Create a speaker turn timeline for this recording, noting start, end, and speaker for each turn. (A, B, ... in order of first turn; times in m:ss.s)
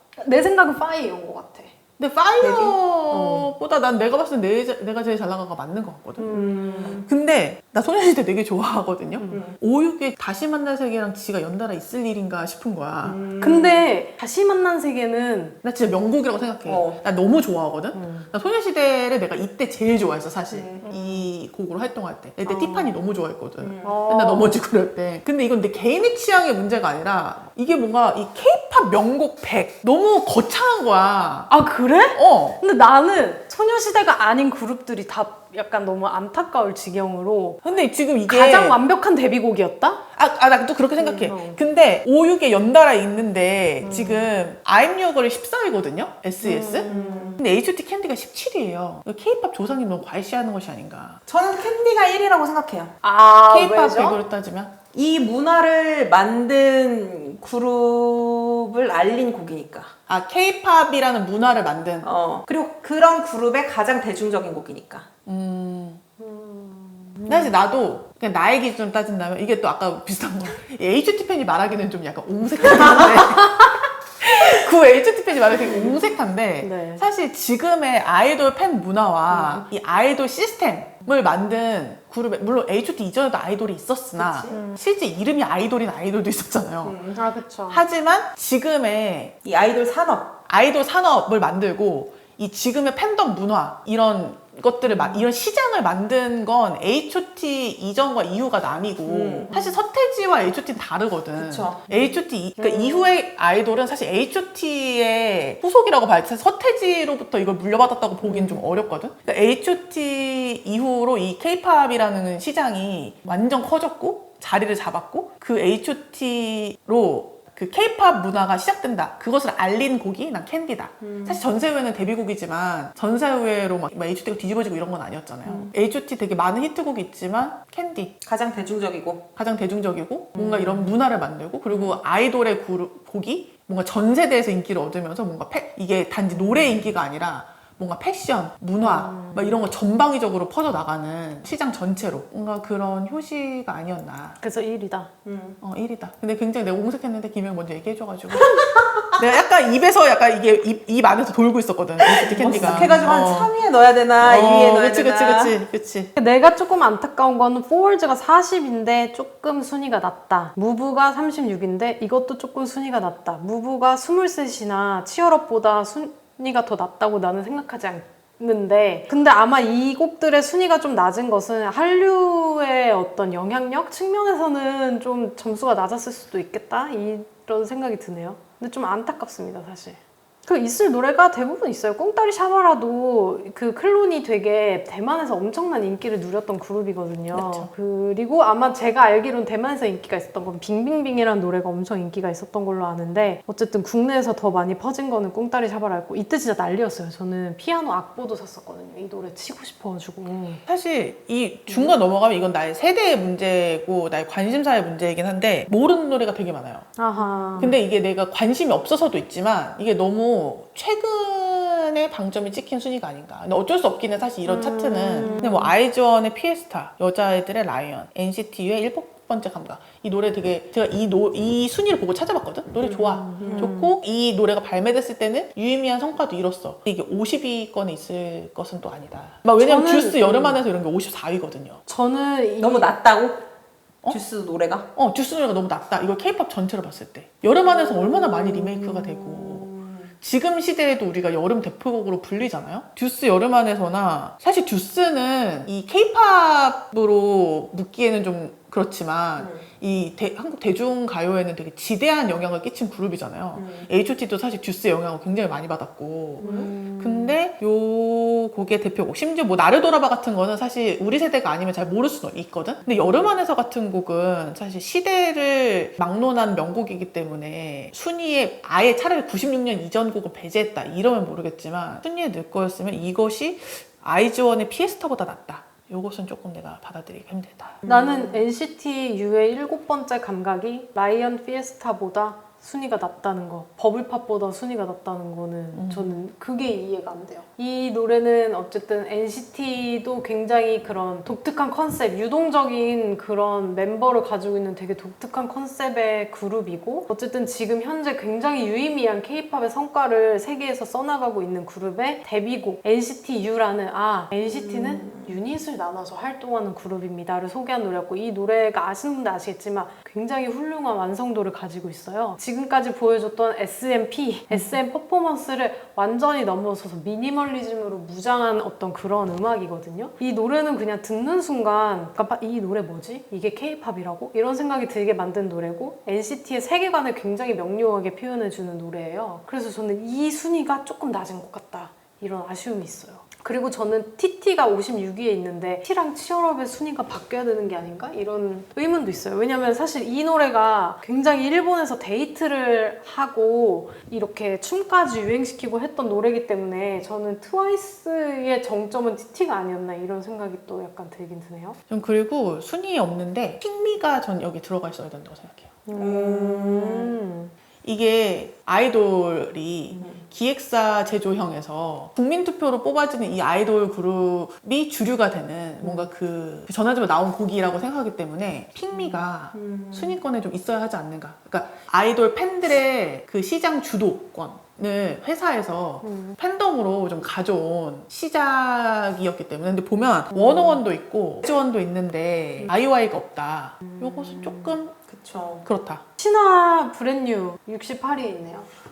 0:00.2-0:01.7 A
0:02.0-0:13.2 B
0:02.4-0:02.8 C
0:03.1-0:03.5 A
0:06.2-0:07.0 A
0:06.3-0:07.0 C
0:09.2-0:09.4 A
0:09.3-0:09.6 C
0:13.0-0:13.9 C
0:13.4-0:15.6 A
0:15.6-0:31.5 B
0:16.6-0:17.0 C
0:17.9-0:18.3 A
0:20.5-0:20.8 C
0:20.8-0:21.3 A
0:22.4-0:23.0 A
0:23.6-0:24.0 C
0:23.8-0:24.6 A
0:31.5-0:37.6 A
0:32.1-0:32.6 B
0:37.6-0:38.8 B
0:38.2-0:40.0 A
0:40.2-0:51.2 B
0:41.0-0:41.6 A
0:43.8-0:44.3 A
0:46.4-0:47.4 A
0:46.9-0:47.4 C
0:51.3-0:52.9 C
0:53.0-0:54.2 A
0:53.5-0:54.8 B
0:54.9-0:59.9 C
1:00.1-1:02.1 B
1:02.0-1:05.1 C
1:05.2-1:06.0 B
1:06.2-1:07.6 A
1:07.2-1:13.7 B
1:14.2-1:27.0 B
1:16.6-1:17.0 A
1:19.3-1:19.6 A
1:24.2-1:24.6 C
1:24.5-1:24.8 A
1:26.8-1:27.2 C
1:27.1-1:27.8 A
1:27.7-1:29.3 B
1:29.4-1:30.4 C
1:30.5-2:08.1 B
1:34.8-1:35.3 A
1:39.0-1:39.5 C
1:39.5-1:39.8 A
1:41.3-1:41.8 C
1:41.9-1:43.1 A
2:01.0-2:01.4 C
2:05.4-2:05.7 C
2:08.2-2:09.2 C
2:09.4-2:24.4 B
2:10.4-2:10.9 C
2:11.7-2:12.0 C
2:18.8-2:19.6 A
2:24.4-2:25.1 A
2:25.2-2:25.6 C
2:25.6-2:28.5 B
2:28.3-2:29.0 C
2:29.1-2:33.5 B
2:32.0-2:35.6 C
2:32.3-2:33.0 A
2:34.2-2:36.1 B
2:36.2-3:20.6 A
3:07.3-3:07.7 B
3:20.7-3:26.9 B
3:21.7-3:22.0 A
3:27.0-3:27.8 A
3:27.2-3:27.7 C
3:27.6-3:51.8 B
3:34.4-3:35.7 A
3:42.8-3:43.7 C
3:43.0-3:43.9 A
3:49.6-3:50.6 A
3:51.9-3:53.0 A
3:52.6-3:53.4 C
3:54.1-3:54.9 C
3:55.0-3:59.7 B
3:57.6-4:00.1 C
4:00.2-4:37.8 B
4:09.4-4:09.6 C
4:13.5-4:13.9 C
4:16.4-4:16.7 C
4:16.4-4:17.4 A
4:23.0-4:23.3 C
4:37.8-4:38.4 C
4:37.9-5:51.8 A
4:45.7-4:46.2 B
5:04.4-5:05.4 C
5:14.5-5:14.8 B
5:51.9-5:55.7 B
5:55.8-5:57.5 A
5:55.9-5:57.2 C
5:57.8-6:25.0 B
6:09.0-6:10.2 C
6:16.0-6:16.4 A
6:20.4-6:20.7 C
6:23.8-6:24.8 A
6:25.1-6:25.6 C
6:25.6-6:26.0 B
6:26.2-6:28.7 A